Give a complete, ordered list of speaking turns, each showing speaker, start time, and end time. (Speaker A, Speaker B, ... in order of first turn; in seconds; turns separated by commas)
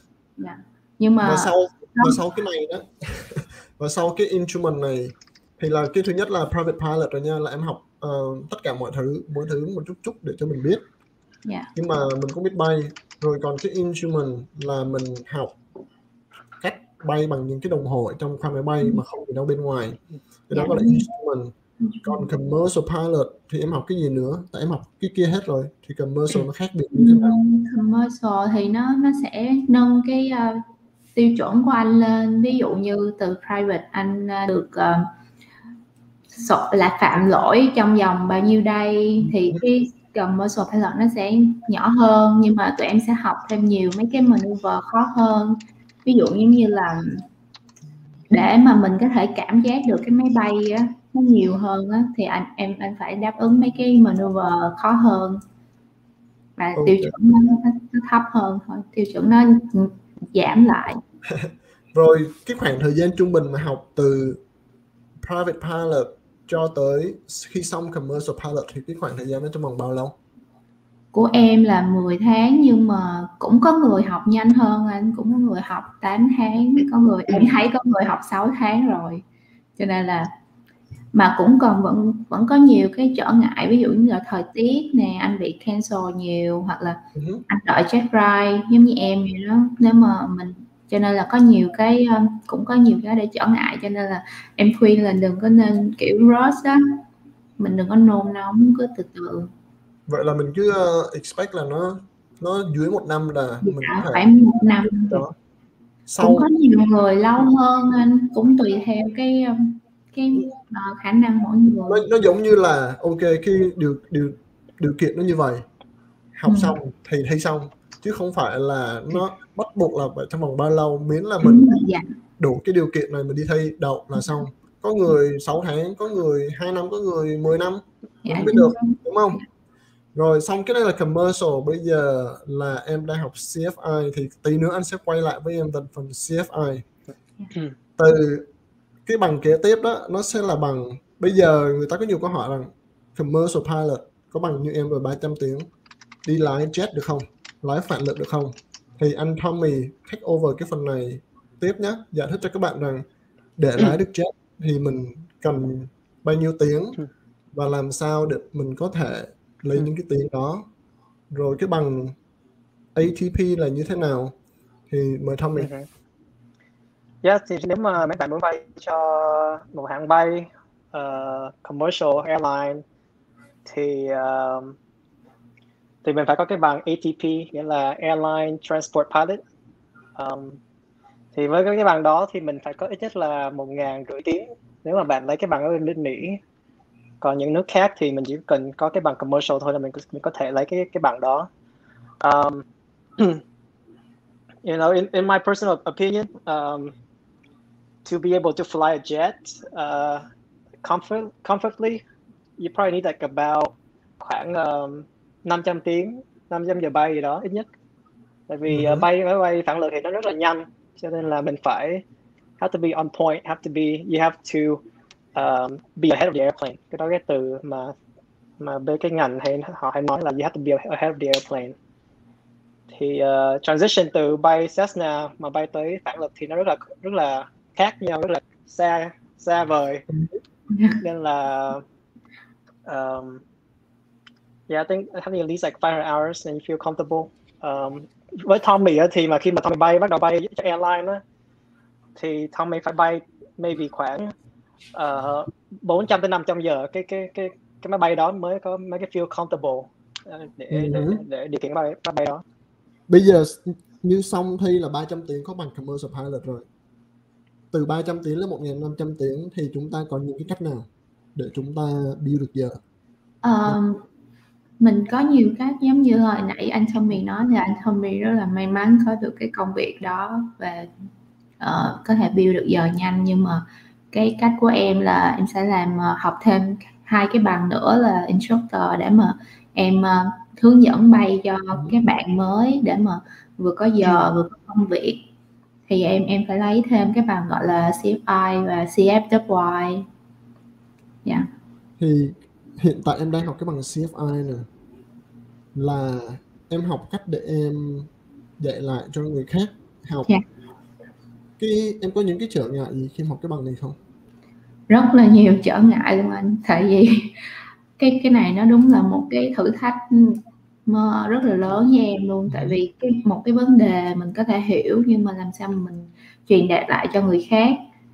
Speaker A: 0.4-2.2, Speaker B: 1.2-10.8, Speaker A: 11.4-11.7, Speaker B: 11.7-15.6, Speaker B: 16.6-21.5, Speaker A: 20.5-21.1, Speaker A: 21.8-22.3, Speaker B: 22.0-27.4, Speaker A: 26.9-30.6, Speaker A: 31.1-35.1, Speaker A: 36.3-47.2, Speaker A: 48.3-55.4, Speaker A: 56.6-61.0, Speaker B: 56.8-57.1, Speaker B: 61.3-64.4, Speaker B: 65.2-70.2, Speaker A: 71.1-79.2, Speaker A: 79.8-80.3, Speaker A: 81.1-97.0, Speaker B: 87.2-87.4, Speaker A: 97.6-99.5, Speaker B: 100.1-104.2, Speaker A: 103.6-105.2, Speaker B: 105.1-105.3, Speaker B: 106.1-106.5, Speaker A: 106.2-112.0, Speaker B: 111.9-115.7, Speaker B: 116.3-121.8, Speaker A: 116.5-116.8, Speaker A: 121.4-122.1, Speaker B: 122.4-129.4, Speaker A: 128.2-129.0, Speaker B: 130.1-136.8, Speaker B: 138.0-138.5, Speaker B: 139.1-145.7, Speaker B: 146.2-153.0, Speaker B: 153.6-157.0, Speaker B: 157.5-160.7, Speaker B: 161.3-162.2, Speaker B: 162.9-164.3, Speaker B: 164.9-165.7, Speaker C: 165.6-165.8, Speaker C: 167.2-172.8, Speaker C: 173.7-174.8, Speaker C: 176.0-179.4, Speaker C: 180.2-180.6, Speaker C: 181.3-186.4, Speaker C: 187.2-191.5, Speaker C: 192.2-192.6, Speaker C: 194.6-196.9, Speaker C: 198.0-200.2, Speaker C: 200.8-202.0, Speaker C: 202.6-207.7, Speaker C: 208.5-212.0, Speaker B: 208.7-209.1, Speaker C: 212.6-214.8, Speaker C: 215.3-217.9, Speaker C: 218.6-221.7, Speaker C: 222.9-230.0, Speaker A: 230.7-231.0, Speaker C: 231.0-231.8, Speaker C: 232.8-233.4, Speaker C: 234.7-241.2, Speaker C: 242.2-244.3, Speaker C: 244.9-252.4, Speaker B: 250.7-251.2, Speaker B: 253.1-256.6, Speaker B: 257.7-262.8, Speaker A: 263.4-264.0, Speaker A: 264.8-270.9, Speaker A: 271.6-285.2, Speaker A: 285.9-290.1, Speaker B: 292.0-294.7, Speaker B: 295.7-300.3, Speaker B: 301.6-304.0, Speaker A: 304.9-307.4, Speaker A: 308.0-317.8, Speaker B: 312.5-312.8